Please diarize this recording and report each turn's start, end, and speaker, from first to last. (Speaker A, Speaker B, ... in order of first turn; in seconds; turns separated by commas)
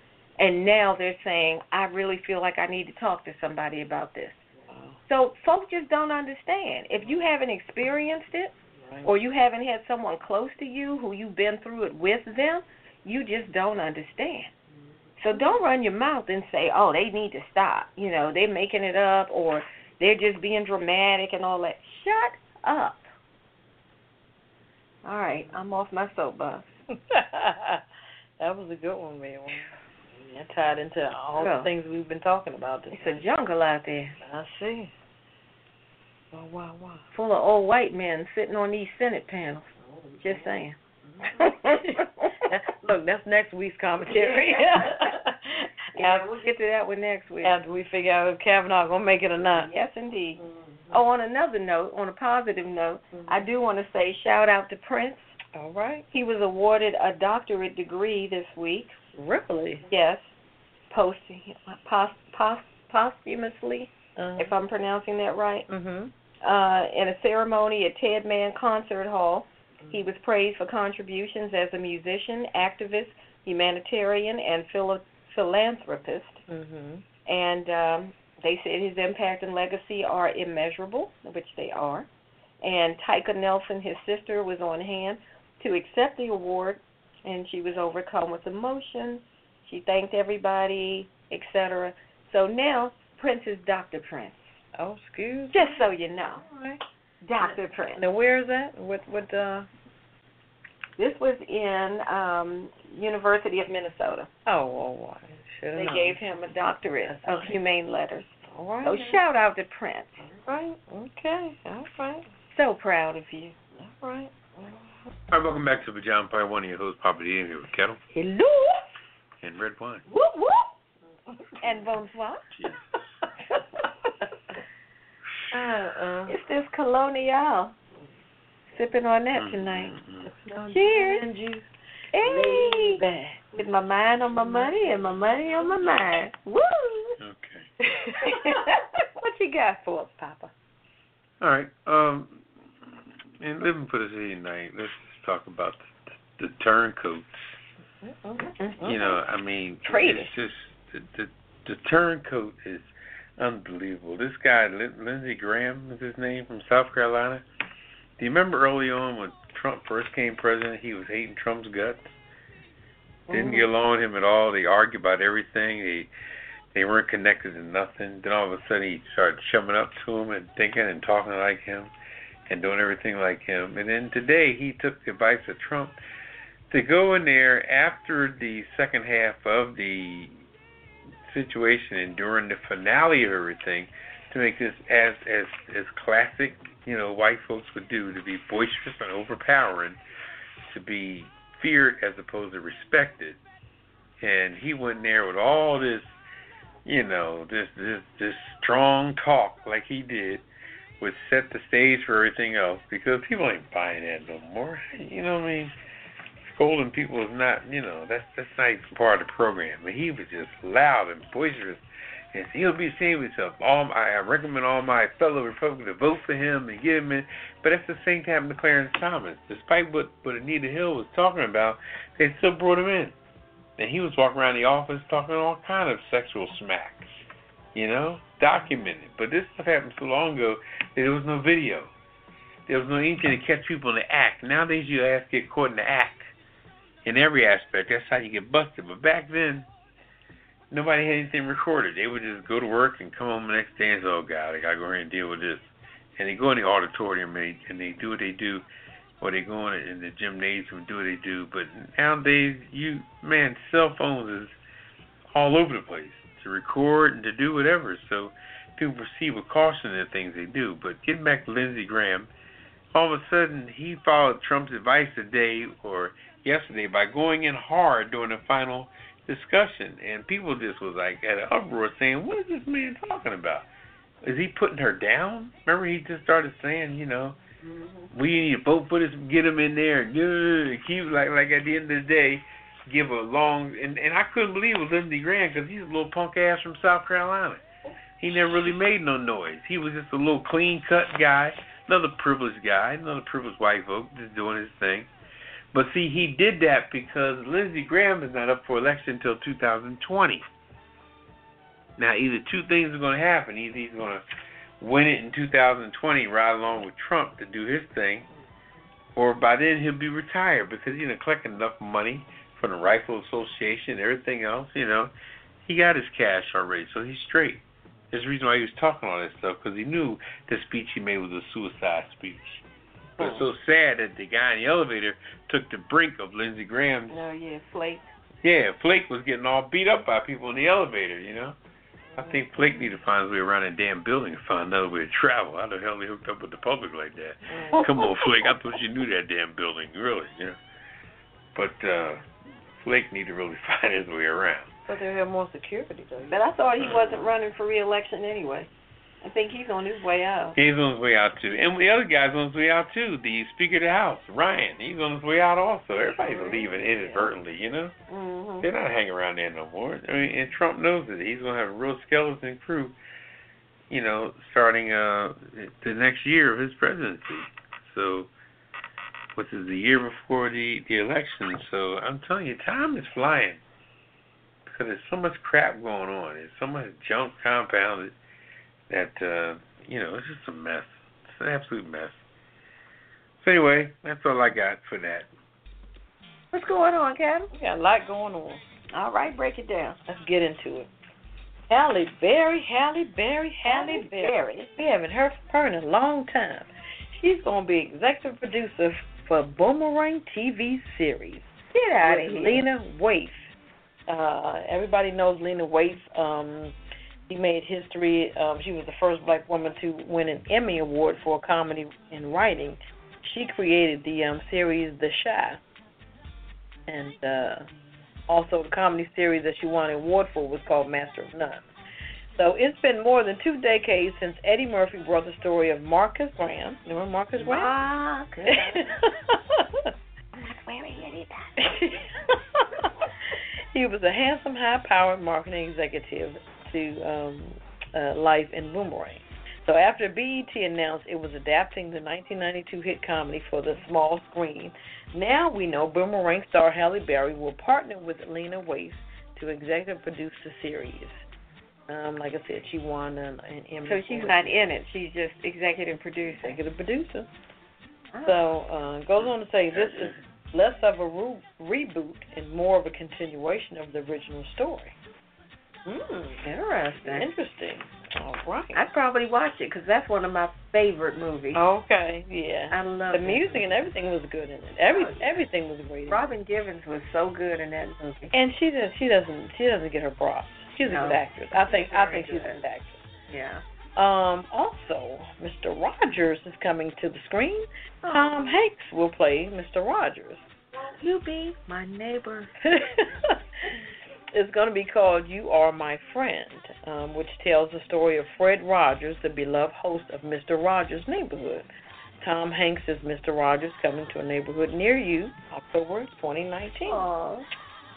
Speaker A: 0.4-4.4, Speaker B: 4.6-5.0, Speaker A: 5.0-14.5, Speaker B: 8.8-9.1, Speaker A: 15.2-23.1, Speaker A: 25.0-26.7, Speaker B: 26.9-27.8, Speaker B: 28.4-33.2, Speaker A: 31.4-31.7, Speaker A: 32.9-34.2, Speaker B: 34.2-34.9, Speaker B: 36.3-37.1, Speaker A: 37.1-40.8, Speaker B: 39.8-46.3, Speaker A: 41.4-42.3, Speaker A: 44.1-45.1, Speaker A: 46.0-47.5, Speaker B: 47.4-49.7, Speaker A: 49.6-50.4, Speaker B: 50.4-51.0, Speaker A: 50.9-55.4, Speaker B: 53.1-53.4, Speaker B: 55.5-56.1, Speaker A: 56.1-59.0, Speaker B: 59.1-59.9, Speaker A: 59.9-60.3, Speaker A: 60.9-65.7, Speaker B: 64.2-64.5, Speaker B: 65.7-66.1, Speaker A: 66.4-76.4, Speaker B: 76.5-77.0, Speaker A: 77.3-82.1, Speaker A: 82.6-94.5, Speaker B: 94.8-95.8, Speaker A: 95.5-96.4, Speaker B: 96.4-96.8, Speaker A: 97.2-98.0, Speaker B: 97.5-99.7, Speaker A: 101.0-104.3, Speaker B: 104.5-106.2, Speaker A: 105.8-110.2, Speaker B: 107.1-107.6, Speaker B: 108.5-109.2, Speaker B: 110.2-112.3, Speaker A: 112.5-113.6, Speaker B: 113.8-114.9, Speaker C: 115.3-118.0, Speaker A: 118.2-118.8, Speaker C: 119.4-120.1, Speaker A: 120.1-120.7, Speaker A: 121.6-122.5, Speaker B: 125.5-126.4, Speaker A: 126.3-127.8, Speaker A: 128.7-130.0, Speaker C: 129.3-130.3, Speaker B: 130.2-131.7, Speaker A: 130.7-131.2, Speaker A: 132.1-137.2, Speaker B: 132.2-133.4, Speaker B: 134.5-135.0, Speaker C: 137.2-137.7, Speaker B: 137.8-140.5, Speaker A: 138.2-138.7, Speaker C: 141.4-147.3, Speaker B: 148.0-148.6, Speaker A: 148.6-149.2, Speaker C: 148.8-157.4, Speaker A: 149.9-150.3, Speaker C: 158.2-162.1, Speaker A: 163.3-163.7, Speaker C: 163.3-166.1, Speaker C: 166.7-171.9, Speaker C: 172.5-175.9, Speaker C: 176.7-180.4, Speaker C: 181.3-190.0, Speaker C: 190.7-193.4, Speaker C: 194.2-196.1, Speaker C: 196.8-200.4, Speaker C: 201.0-205.7, Speaker C: 206.4-211.8, Speaker C: 212.3-223.2, Speaker C: 223.8-227.1, Speaker C: 227.8-231.9, Speaker C: 232.7-236.3, Speaker C: 237.1-239.7, Speaker C: 240.7-245.7, Speaker C: 246.2-248.7, Speaker C: 249.2-254.6, Speaker C: 255.3-262.3, Speaker C: 262.9-273.7, Speaker C: 274.2-277.4, Speaker A: 277.6-278.1, Speaker C: 278.1-287.6, Speaker C: 288.2-295.1, Speaker C: 295.7-300.4, Speaker C: 302.0-304.2, Speaker C: 304.8-308.3, Speaker C: 309.1-315.1, Speaker C: 315.6-322.6, Speaker A: 323.2-323.4, Speaker C: 323.2-327.2, Speaker A: 327.1-328.1, Speaker C: 328.4-331.6, Speaker C: 332.2-340.6, Speaker B: 337.5-337.9, Speaker C: 341.6-342.2, Speaker C: 342.8-344.7, Speaker B: 344.9-346.4, Speaker A: 346.3-348.7, Speaker C: 346.8-347.3, Speaker A: 349.2-350.6, Speaker C: 350.6-357.9, Speaker A: 356.0-357.3, Speaker A: 358.1-358.7, Speaker C: 358.6-362.9, Speaker C: 363.9-368.3, Speaker C: 369.4-373.6, Speaker C: 374.7-378.1, Speaker C: 378.9-382.2, Speaker C: 383.4-385.3, Speaker A: 386.5-387.5, Speaker B: 387.5-388.6, Speaker A: 388.9-390.0, Speaker B: 390.1-390.9, Speaker B: 391.7-401.5, Speaker A: 393.7-394.7, Speaker A: 401.7-402.6, Speaker B: 402.0-403.5, Speaker B: 404.1-406.8, Speaker B: 407.3-415.6, Speaker B: 416.9-417.7, Speaker B: 418.3-421.7, Speaker B: 422.4-427.7, Speaker A: 427.4-428.9, Speaker B: 428.5-429.9, Speaker A: 430.4-431.6, Speaker B: 431.6-432.9, Speaker B: 433.7-451.2, Speaker B: 451.9-454.5, Speaker A: 453.9-456.6, Speaker B: 456.4-457.3, Speaker B: 458.2-464.9, Speaker B: 465.9-466.4, Speaker A: 466.4-467.3, Speaker B: 467.1-468.8, Speaker A: 468.7-471.6, Speaker B: 471.5-476.2, Speaker A: 472.7-473.7, Speaker A: 474.9-475.4, Speaker A: 476.1-478.3, Speaker B: 478.3-483.0, Speaker A: 480.9-482.6, Speaker A: 483.3-483.6, Speaker B: 484.0-490.5, Speaker A: 488.0-488.6, Speaker A: 490.8-492.6, Speaker B: 492.6-493.4, Speaker B: 494.3-501.7, Speaker B: 502.2-507.1, Speaker A: 506.9-507.5